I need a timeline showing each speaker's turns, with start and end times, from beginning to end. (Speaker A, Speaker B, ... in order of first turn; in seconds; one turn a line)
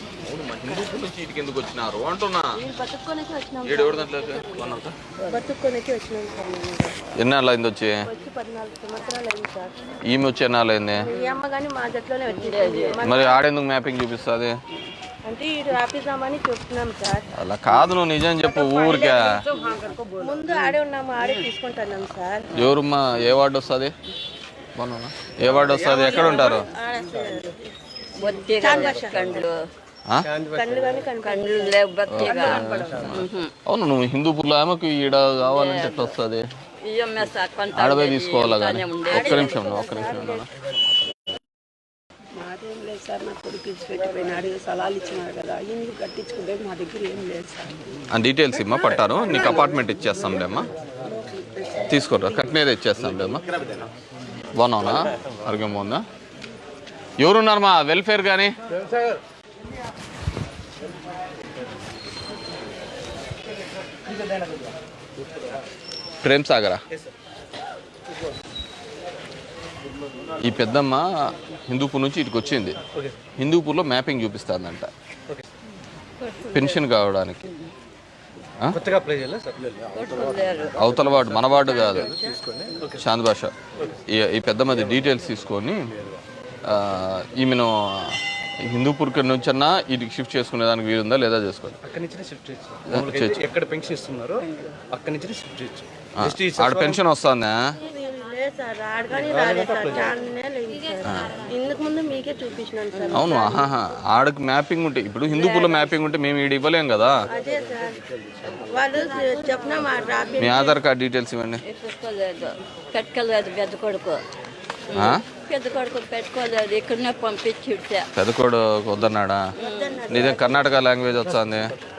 Speaker A: 0.2-2.5
Speaker B: 2.6-7.0
Speaker A: 3.6-5.0
Speaker A: 7.2-8.1
Speaker B: 8.0-9.8
Speaker A: 10.1-11.1
Speaker C: 11.0-11.3
Speaker B: 11.1-13.4
Speaker C: 12.3-13.0
Speaker A: 13.0-14.6
Speaker B: 15.2-17.3
Speaker A: 17.4-19.3
Speaker B: 18.5-22.5
Speaker C: 21.2-21.5
Speaker A: 22.6-23.9
Speaker A: 24.8-26.7
Speaker B: 25.5-27.7
Speaker C: 28.2-29.6
Speaker B: 28.4-29.4
Speaker B: 30.4-33.0
Speaker C: 31.2-33.5
Speaker A: 32.1-36.5
Speaker C: 35.4-36.1
Speaker C: 36.8-39.7
Speaker A: 37.7-40.5
Speaker B: 39.1-40.5
Speaker D: 42.4-47.7
Speaker B: 44.9-46.4
Speaker A: 48.1-50.7
Speaker A: 51.9-53.5
Speaker A: 54.6-56.0
Speaker A: 57.2-58.5
Speaker A: 66.2-66.8
Speaker A: 70.4-71.1
Speaker A: 71.7-72.8
Speaker A: 73.4-74.9
Speaker C: 76.2-76.8
Speaker A: 76.5-77.4
Speaker E: 78.7-79.8
Speaker C: 79.9-80.9
Speaker A: 80.7-82.1
Speaker E: 81.0-81.4
Speaker B: 81.4-82.4
Speaker C: 81.6-82.0
Speaker E: 82.0-83.0
Speaker A: 83.0-83.5
Speaker A: 84.1-85.9
Speaker A: 86.7-91.8
Speaker E: 91.8-97.0
Speaker A: 92.9-93.4
Speaker C: 94.4-94.8
Speaker A: 96.2-97.6
Speaker B: 97.8-103.7
Speaker E: 99.2-100.2
Speaker A: 101.0-101.4
Speaker C: 103.0-103.4
Speaker A: 103.1-107.2
Speaker C: 105.3-106.0
Speaker B: 107.3-110.8
Speaker A: 110.4-111.6
Speaker C: 111.6-114.2
Speaker C: 114.9-118.1
Speaker A: 114.9-115.2
Speaker A: 118.2-119.4
Speaker B: 119.6-120.7
Speaker C: 119.6-120.2
Speaker A: 120.1-121.7